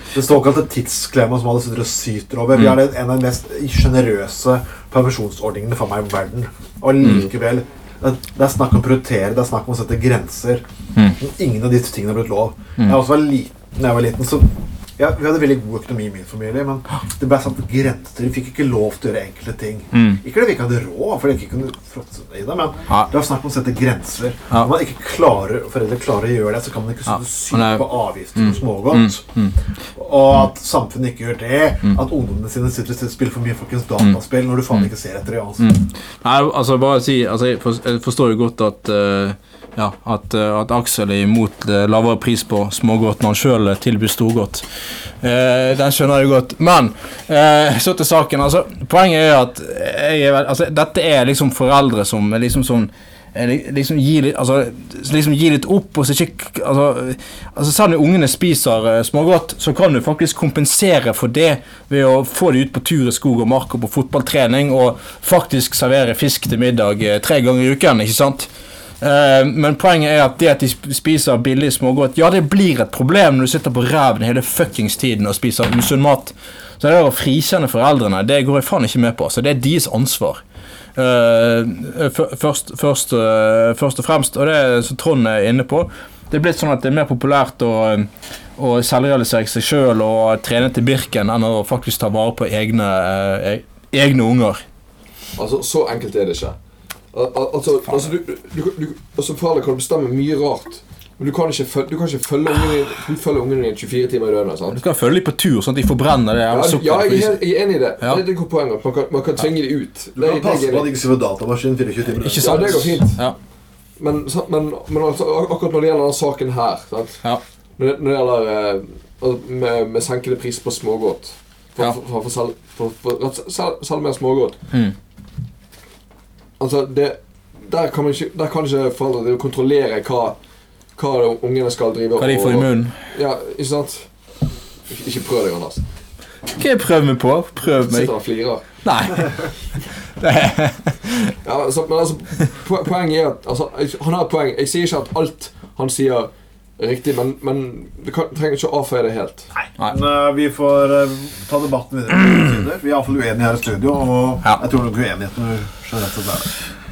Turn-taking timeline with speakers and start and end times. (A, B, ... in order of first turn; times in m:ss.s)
0:00.1-0:10.6 A
0:11.2-0:29.2 A
0:19.9-0:20.2 B
0:27.5-0:27.9 B
0:28.4-0:29.6 B
0:29.9-0:35.7 A
0:35.6-0:44.6 B
0:45.2-1:08.5 B
1:09.0-1:20.4 B
1:21.0-1:34.6 B
1:35.4-1:36.6 C
1:37.1-1:44.8 C
1:44.7-1:47.4 B
1:46.5-1:51.0 C
1:50.2-1:53.0 A
1:52.2-1:53.4 B
1:52.4-1:53.2 C
1:54.0-1:57.2 C
1:57.8-2:04.6 C
2:06.6-2:10.4 C
2:11.0-2:14.1 C
2:12.2-2:13.0 B
2:14.9-2:15.8 C
2:16.5-2:18.1 B
2:17.8-2:18.6 C
2:18.8-2:19.5 B
2:20.2-2:21.3 B
2:21.4-2:29.5 C
2:29.5-2:36.6 A